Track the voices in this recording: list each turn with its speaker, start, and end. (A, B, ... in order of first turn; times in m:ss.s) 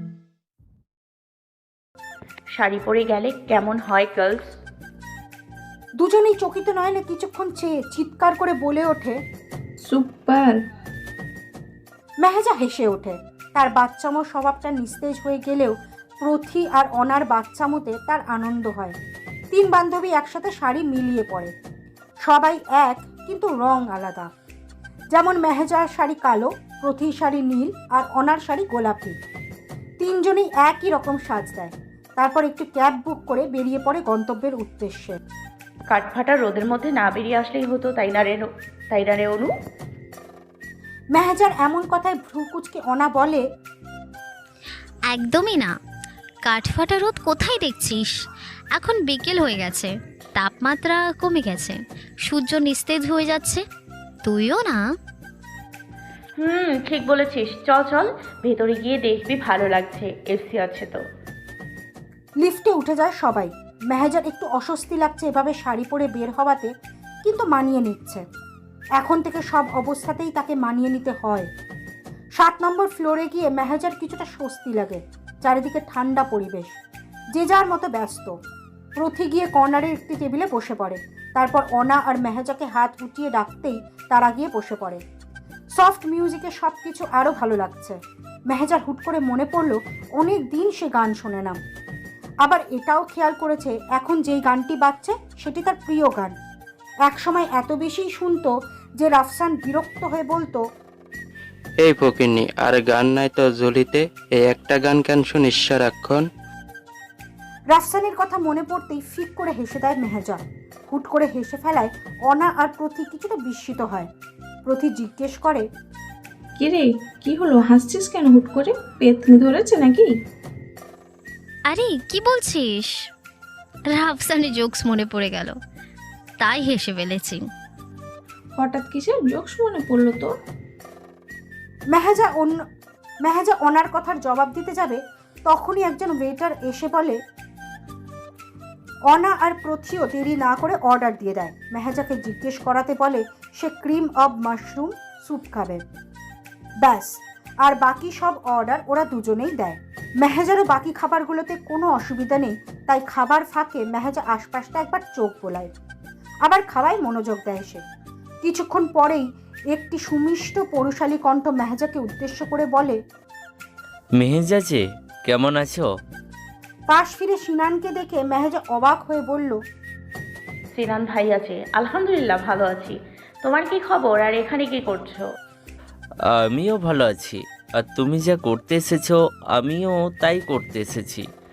0:02.5-0:04.4 A
0:06.0-0:09.2 B
0:09.8-0:10.6 C
0:12.2-0:19.0 B
0:19.5-0:21.5 B
0:22.2-0:24.3 B
0:25.1-0:29.1 B
0:30.0-0:35.2 B
0:35.9-0:39.5 A
0:41.1-0:43.4 B
0:45.1-0:45.7 D
0:46.4-0:48.2 D
0:48.7-0:53.6 D
0:54.2-0:54.8 D
0:56.4-1:01.0 A
1:02.4-1:06.7 B
1:07.2-1:08.2 B
1:09.0-1:11.5 B
1:12.4-1:16.8 B
1:17.3-1:18.3 B
1:19.0-1:25.0 B
1:25.8-1:28.0 B
1:28.5-1:31.6 B
1:32.4-1:36.3 B
1:37.0-1:40.6 B
1:41.8-1:46.2 E
1:47.7-1:54.1 B
1:54.6-1:55.6 B
1:56.6-2:00.1 C
2:01.7-2:02.9 D
2:03.9-2:05.5 D
2:06.4-2:07.4 D
2:08.6-2:10.4 C
2:11.9-2:12.6 B
2:13.2-2:17.2 B
2:19.1-2:25.8 B
2:26.8-2:35.7 B
2:36.4-2:37.8 B
2:38.4-2:43.0 B
2:44.1-2:45.9 F
2:46.9-2:49.6 B
2:50.7-2:55.2 A
2:56.2-3:01.3 F